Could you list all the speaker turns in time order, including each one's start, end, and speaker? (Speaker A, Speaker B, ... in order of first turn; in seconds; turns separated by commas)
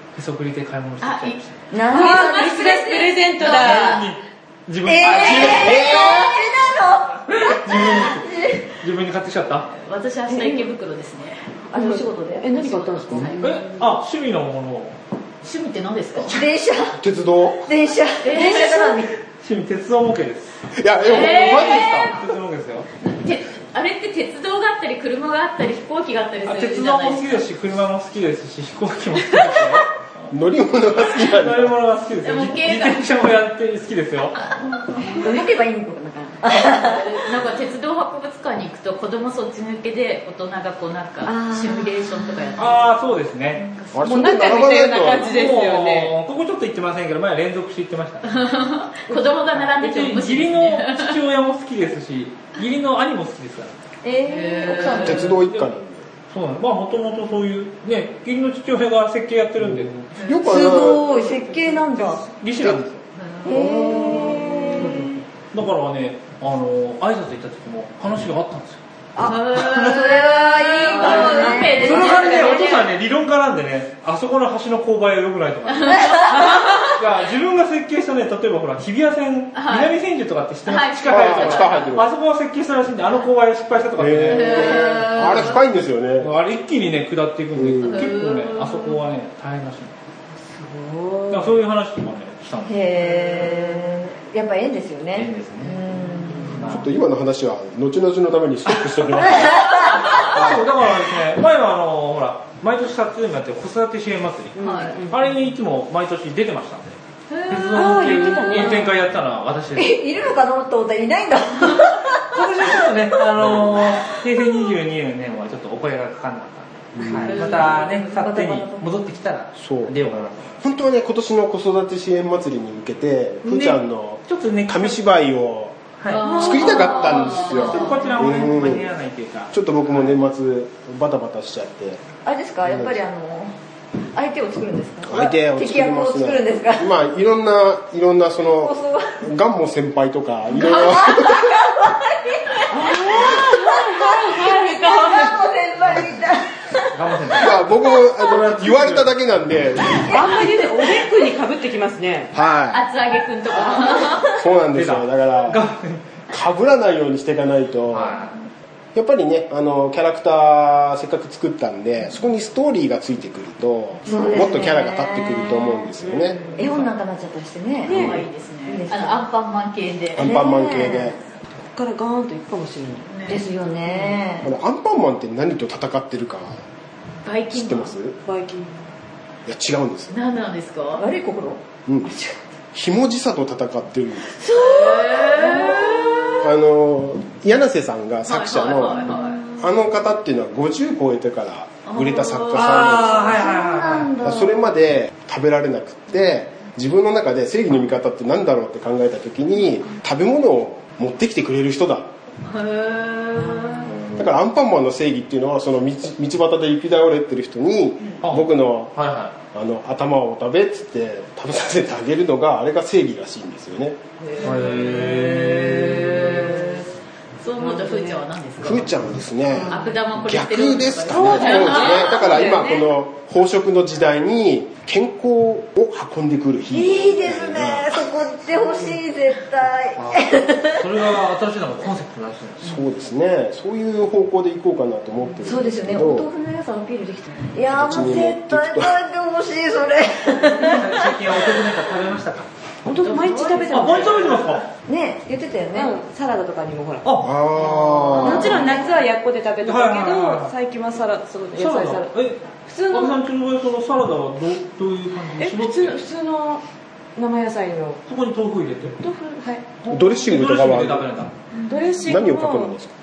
Speaker A: 0.1-1.6, Speaker B: 1.0-1.4, Speaker C: 1.7-2.7, Speaker D: 1.9-4.0, Speaker B: 2.0-4.1, Speaker A: 3.4-6.1, Speaker C: 4.8-8.7, Speaker E: 5.2-6.3, Speaker A: 7.5-9.7, Speaker B: 9.8-11.6, Speaker C: 10.3-10.7, Speaker D: 11.7-13.9, Speaker C: 11.7-12.5, Speaker B: 12.4-13.6, Speaker A: 13.4-15.0, Speaker B: 15.4-16.4, Speaker C: 16.1-17.0, Speaker E: 17.0-17.7, Speaker C: 17.6-19.1, Speaker B: 18.2-19.1, Speaker A: 19.4-20.6, Speaker E: 20.7-22.2, Speaker B: 21.0-22.2, Speaker A: 21.1-22.9, Speaker B: 23.0-27.4, Speaker A: 26.5-30.3, Speaker E: 30.3-31.7, Speaker A: 30.9-34.4, Speaker B: 32.2-33.2, Speaker C: 34.6-37.1, Speaker B: 36.5-42.9, Speaker C: 41.2-42.8, Speaker A: 42.6-43.6, Speaker C: 43.5-44.2, Speaker E: 43.9-45.3, Speaker D: 44.0-46.1, Speaker B: 44.5-45.4, Speaker A: 45.2-48.3, Speaker B: 48.2-51.2, Speaker A: 49.5-53.7, Speaker C: 54.0-55.4, Speaker B: 54.2-55.3, Speaker E: 54.8-56.1, Speaker A: 55.3-55.7, Speaker A: 56.3-60.0, Speaker B: 60.1-60.5, Speaker E: 60.2-61.0, Speaker C: 60.4-62.3, Speaker A: 61.9-63.0, Speaker B: 63.1-63.7, Speaker C: 63.4-65.1, Speaker E: 63.5-65.1, Speaker B: 64.3-64.9, Speaker A: 64.8-68.8, Speaker C: 69.2-72.8, Speaker B: 69.2-72.9, Speaker A: 69.6-70.5, Speaker A: 71.7-84.9, Speaker B: 75.7-76.9, Speaker B: 79.5-80.0, Speaker B: 80.7-81.9, Speaker E: 81.1-82.1, Speaker E: 84.0-86.4, Speaker B: 84.3-85.6, Speaker A: 86.2-89.9, Speaker E: 87.6-88.1, Speaker B: 87.8-89.0, Speaker D: 90.4-91.6, Speaker A: 91.3-92.8, Speaker C: 92.7-96.8, Speaker D: 93.0-94.0, Speaker A: 95.1-95.8, Speaker A: 96.6-96.9, Speaker E: 96.6-100.7, Speaker A: 98.7-107.0, Speaker C: 99.4-100.2, Speaker D: 104.6-105.2, Speaker B: 104.6-105.0, Speaker B: 107.3-108.2, Speaker A: 107.5-110.0, Speaker D: 107.7-109.0, Speaker C: 109.7-112.9, Speaker A: 112.3-120.5, Speaker C: 117.1-119.0, Speaker B: 117.2-117.9, Speaker E: 119.6-125.8, Speaker A: 123.4-125.0, Speaker A: 126.0-129.5, Speaker B: 126.1-128.2, Speaker E: 126.3-128.9, Speaker E: 129.5-132.0, Speaker C: 132.2-133.5, Speaker E: 132.7-133.0, Speaker C: 134.1-136.9, Speaker E: 135.1-141.7, Speaker C: 138.6-139.2, Speaker C: 140.5-147.4, Speaker D: 142.7-145.3, Speaker A: 146.9-147.7, Speaker E: 147.3-150.2, Speaker A: 148.2-149.1, Speaker C: 149.8-151.3, Speaker D: 150.1-152.3, Speaker E: 152.3-152.8, Speaker B: 152.7-154.4, Speaker C: 153.8-154.2, Speaker E: 154.2-155.7, Speaker A: 154.7-156.0, Speaker E: 156.3-158.2, Speaker A: 157.9-158.4, Speaker E: 158.9-166.4, Speaker C: 164.0-165.9, Speaker D: 166.0-166.7, Speaker C: 166.5-169.2, Speaker D: 167.8-168.2, Speaker B: 167.9-170.3, Speaker E: 170.1-171.2, Speaker C: 170.2-171.2, Speaker D: 171.5-173.1, Speaker B: 173.1-173.4, Speaker C: 173.3-174.5, Speaker E: 174.4-176.6, Speaker B: 177.2-178.0, Speaker E: 177.5-178.2, Speaker D: 178.2-178.9, Speaker E: 179.4-180.2, Speaker B: 180.1-181.1, Speaker C: 180.9-182.4, Speaker E: 181.8-182.1, Speaker E: 182.7-184.4, Speaker C: 184.4-186.3, Speaker B: 184.5-186.4, Speaker E: 186.4-193.4, Speaker B: 188.2-189.4, Speaker C: 188.9-189.7, Speaker B: 191.8-192.7, Speaker A: 192.5-194.1, Speaker C: 193.1-194.7, Speaker E: 194.2-202.1, Speaker B: 202.4-204.0, Speaker D: 203.4-203.9, Speaker E: 204.1-208.9, Speaker A: 208.2-209.3, Speaker E: 209.5-214.0, Speaker B: 214.2-216.9, Speaker A: 214.4-215.8, Speaker D: 215.0-216.8, Speaker B: 217.4-218.9, Speaker D: 217.5-218.2, Speaker E: 218.6-228.1, Speaker D: 219.5-220.0, Speaker B: 219.7-222.8, Speaker D: 221.1-222.7, Speaker C: 226.7-230.8, Speaker A: 230.0-232.9, Speaker E: 232.6-236.3, Speaker C: 235.4-241.3, Speaker E: 237.7-239.0, Speaker A: 240.4-242.5, Speaker D: 242.8-244.6, Speaker C: 243.0-245.9, Speaker A: 243.7-244.7, Speaker D: 245.7-247.1, Speaker A: 247.0-247.3, Speaker E: 247.2-248.5, Speaker D: 247.8-253.2, Speaker C: 248.1-249.0, Speaker A: 248.2-248.7, Speaker A: 249.6-250.5, Speaker A: 251.6-256.0, Speaker D: 255.3-256.6, Speaker D: 257.2-258.0, Speaker A: 258.1-259.0, Speaker D: 259.0-259.7, Speaker A: 259.8-261.4, Speaker E: 259.9-261.1, Speaker B: 261.6-261.8, Speaker D: 261.7-262.8, Speaker E: 262.1-262.9